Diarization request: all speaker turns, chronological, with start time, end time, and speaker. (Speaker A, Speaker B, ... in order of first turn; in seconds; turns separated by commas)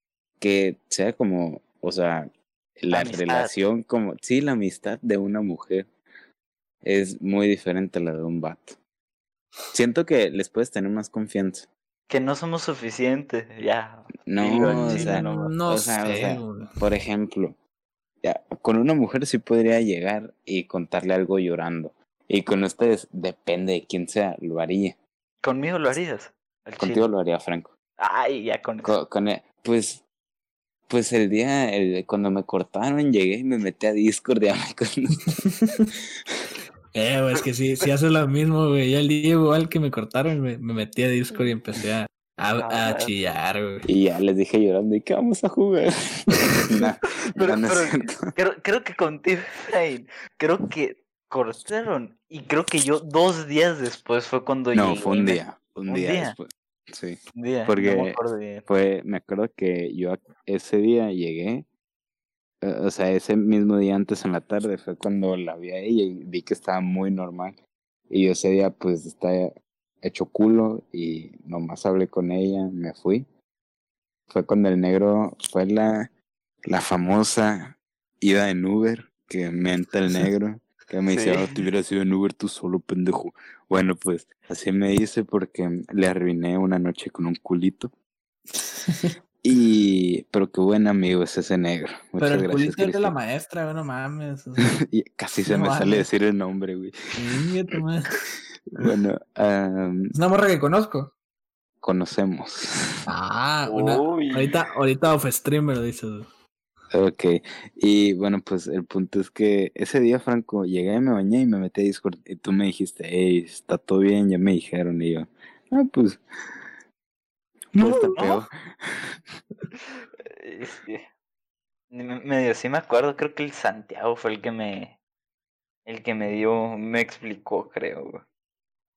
Speaker A: 0.4-5.9, Speaker B: 2.9-3.5, Speaker A: 6.8-8.8, Speaker A: 9.7-11.7, Speaker B: 12.1-15.2, Speaker A: 14.3-17.6, Speaker C: 14.6-16.8, Speaker A: 18.2-25.0, Speaker B: 25.4-27.1, Speaker A: 26.8-27.7, Speaker B: 28.0-28.9, Speaker A: 28.8-30.0, Speaker A: 30.9-35.3, Speaker C: 35.4-35.9, Speaker C: 36.9-43.9, Speaker B: 42.6-43.2, Speaker A: 43.9-48.3, Speaker B: 47.4-56.4, Speaker A: 54.7-61.7, Speaker B: 57.4-58.7, Speaker A: 62.6-67.6, Speaker A: 68.1-69.5, Speaker A: 70.0-73.3, Speaker A: 74.3-76.1, Speaker A: 76.7-87.9, Speaker B: 81.1-81.5, Speaker C: 88.8-89.1, Speaker A: 89.4-93.2, Speaker C: 92.2-94.8, Speaker A: 94.7-96.9, Speaker C: 95.5-96.1, Speaker C: 97.2-98.1, Speaker A: 98.8-100.1, Speaker C: 100.1-101.1, Speaker A: 101.8-102.7, Speaker C: 103.1-106.3, Speaker B: 103.7-104.5, Speaker A: 106.9-116.2, Speaker A: 117.7-119.2, Speaker C: 117.8-118.1, Speaker B: 118.2-118.5, Speaker B: 120.0-121.1, Speaker B: 121.9-125.0, Speaker B: 125.9-128.2